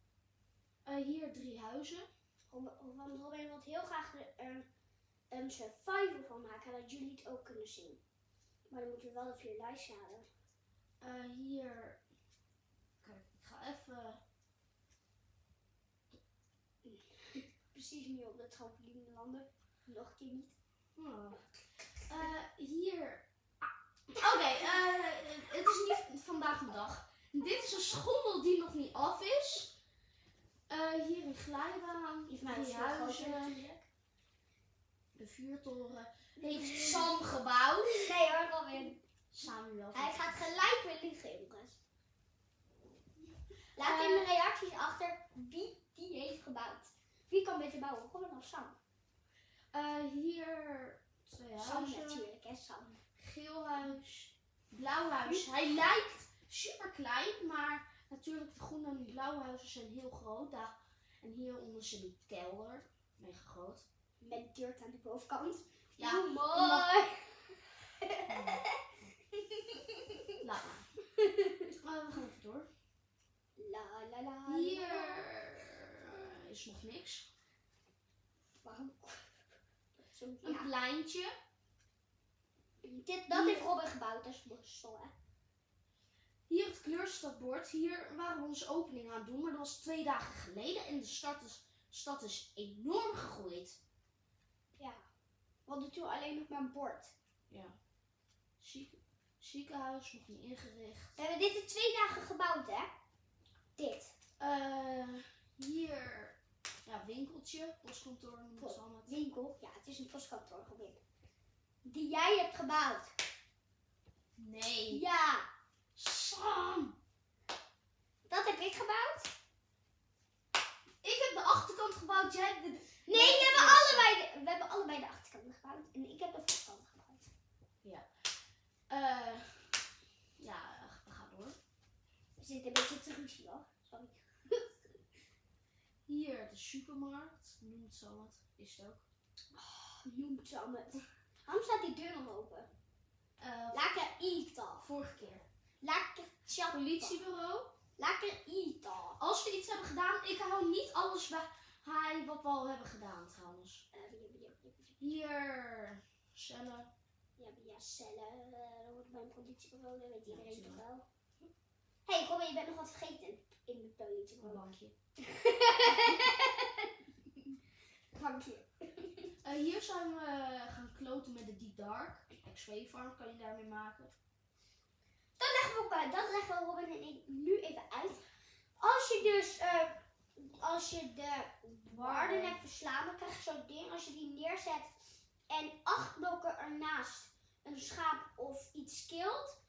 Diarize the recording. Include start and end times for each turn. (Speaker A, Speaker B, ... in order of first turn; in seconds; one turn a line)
Speaker A: 0.8-2.1
Speaker B: 2.5-4.7
Speaker B: 5.3-8.0
Speaker B: 8.7-10.3
Speaker A: 11.0-12.0
Speaker A: 13.0-14.2
Speaker B: 16.8-20.6
Speaker A: 21.0-23.2
Speaker A: 24.1-29.7
Speaker A: 30.7-33.7
Speaker B: 32.3-33.8
Speaker A: 35.1-37.9
Speaker B: 36.4-37.2
Speaker B: 37.9-39.0
Speaker A: 39.3-40.4
Speaker B: 39.9-41.8
Speaker B: 43.8-48.8
Speaker A: 43.8-44.3
Speaker A: 49.7-52.2
Speaker B: 51.6-53.0
Speaker A: 53.2-63.9
Speaker B: 64.2-68.6
Speaker A: 66.0-66.9
Speaker A: 68.2-68.7
Speaker B: 69.4-70.0
Speaker A: 70.4-70.9
Speaker B: 71.2-71.7
Speaker A: 71.8-72.7
Speaker B: 73.6-75.2
Speaker A: 74.5-77.3
Speaker B: 78.6-79.4
Speaker B: 80.0-80.7
Speaker A: 80.4-81.3
Speaker B: 82.8-85.1
Speaker A: 83.3-83.7
Speaker A: 86.5-93.8
Speaker B: 94.8-95.0
Speaker B: 95.7-97.1
Speaker A: 97.5-97.8
Speaker A: 98.6-101.2
Speaker B: 101.2-102.9
Speaker B: 103.8-104.1
Speaker A: 104.4-109.2
Speaker B: 108.6-111.0
Speaker B: 111.8-113.1
Speaker A: 114.4-115.0
Speaker B: 114.9-115.5
Speaker A: 115.9-117.0
Speaker B: 118.2-119.3
Speaker A: 121.0-124.1
Speaker B: 123.1-127.2
Speaker A: 127.8-128.3
Speaker A: 128.9-129.8
Speaker A: 130.4-131.6
Speaker B: 132.4-134.8
Speaker A: 136.1-139.1
Speaker B: 139.5-142.7
Speaker A: 143.4-144.0
Speaker B: 143.7-144.9
Speaker A: 144.8-145.4
Speaker B: 145.8-147.2
Speaker A: 146.7-147.7
Speaker B: 148.0-149.2
Speaker A: 149.2-153.9
Speaker B: 153.9-155.1
Speaker A: 155.0-156.9
Speaker B: 157.4-161.1
Speaker A: 160.2-160.8
Speaker B: 162.1-164.6
Speaker A: 164.4-164.9
Speaker B: 165.2-166.9
Speaker B: 168.1-169.3
Speaker A: 169.4-174.1
Speaker B: 175.4-178.2
Speaker B: 178.8-184.9
Speaker A: 181.9-182.6
Speaker B: 185.5-189.6